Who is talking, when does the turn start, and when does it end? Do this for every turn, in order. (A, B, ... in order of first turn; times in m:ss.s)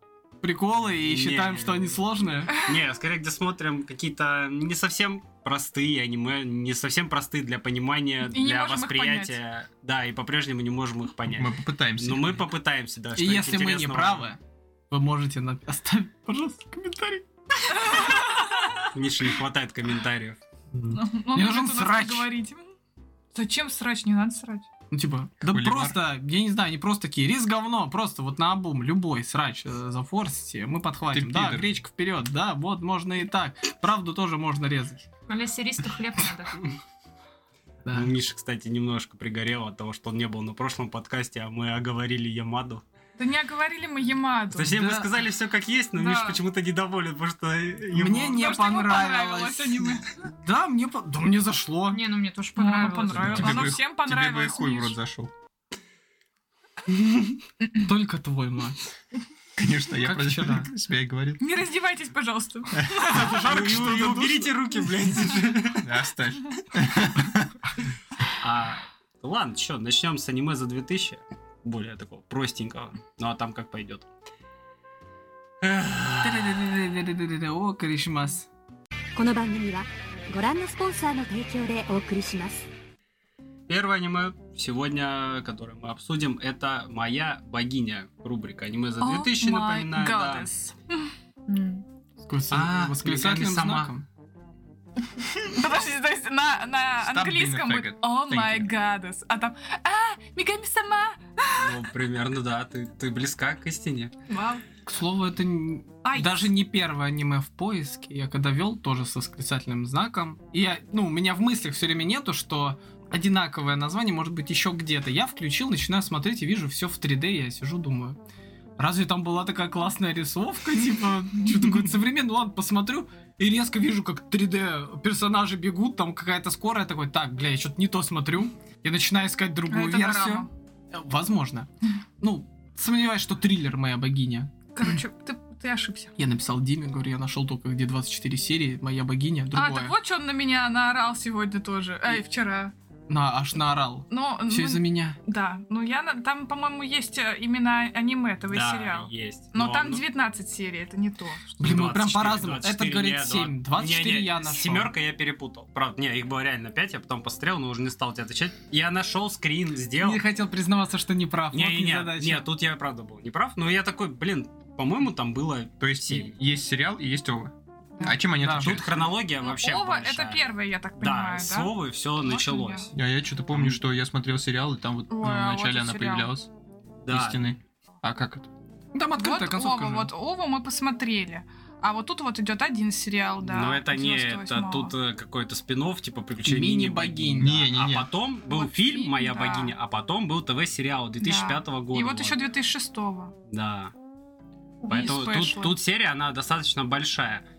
0:00.4-0:02.5 A
0:01.0-0:02.0 B
0:02.6-0:14.3 B
0:08.3-0:09.4 C
0:11.3-0:12.4 D
0:13.2-0:14.4 A
0:14.9-0:17.2 A
0:17.6-0:18.9 C
0:18.9-0:20.4 B
0:20.9-0:22.7 C
0:21.3-0:22.3 A
0:23.3-0:24.7 C
0:24.9-0:35.0 A
0:25.4-0:26.0 D
0:31.1-0:31.8 D
0:35.3-0:36.6 E
0:37.8-0:38.1 A
0:37.9-0:42.8 B
0:43.2-0:44.8 C
0:44.5-0:48.5 B
0:44.7-0:45.1 A
0:46.0-0:46.4 C
0:47.9-0:52.0 A
0:48.3-0:50.1 C
0:51.9-0:53.7 E
0:52.6-0:55.0 C
0:53.1-0:55.3 D
0:57.7-0:58.8 A
0:59.6-1:01.4 D
1:00.0-1:00.7 A
1:01.4-1:03.2 C
1:03.0-1:04.5 A
1:03.3-1:05.9 B
1:05.8-1:07.5 D
1:08.4-1:14.1 B
1:15.6-1:16.7 B
1:16.2-1:18.5 A
1:19.2-1:22.6 F
1:23.7-1:30.5 B
1:29.0-1:31.1 C
1:31.5-1:31.8 E
1:32.2-1:34.0 A
1:32.5-1:33.9 B
1:35.1-1:41.7 C
1:37.0-1:38.6 D
1:41.6-1:44.1 B
1:44.3-1:44.6 C
1:44.8-1:58.2 A
1:46.0-1:46.4 C
1:58.8-2:11.7 A
2:09.7-2:10.5 C
2:12.2-2:14.5 A
2:14.7-2:16.1 C
2:16.2-2:20.0 A
2:19.5-2:22.7 C
2:23.1-2:25.2 A
2:24.1-2:31.5 C
2:28.5-2:30.0 B
2:31.6-2:40.2 B
2:31.6-2:34.9 A
2:40.0-2:42.5 A
2:41.5-2:46.3 B
2:45.8-2:49.1 D
2:48.4-2:48.7 A
2:48.5-2:52.9 B
2:49.4-2:52.9 C
2:52.9-2:56.5 D
2:53.5-2:53.8 B
2:55.1-2:56.3 C
2:57.0-2:57.6 B
2:57.1-2:58.5 D
2:58.9-3:00.1 A
2:59.2-3:04.9 C
3:03.4-3:12.4 B
3:06.4-3:07.5 A
3:07.4-3:08.1 D
3:08.5-3:09.7 C
3:11.2-3:13.3 C
3:13.5-3:13.9 B
3:14.8-3:15.8 C
3:14.9-3:17.4 B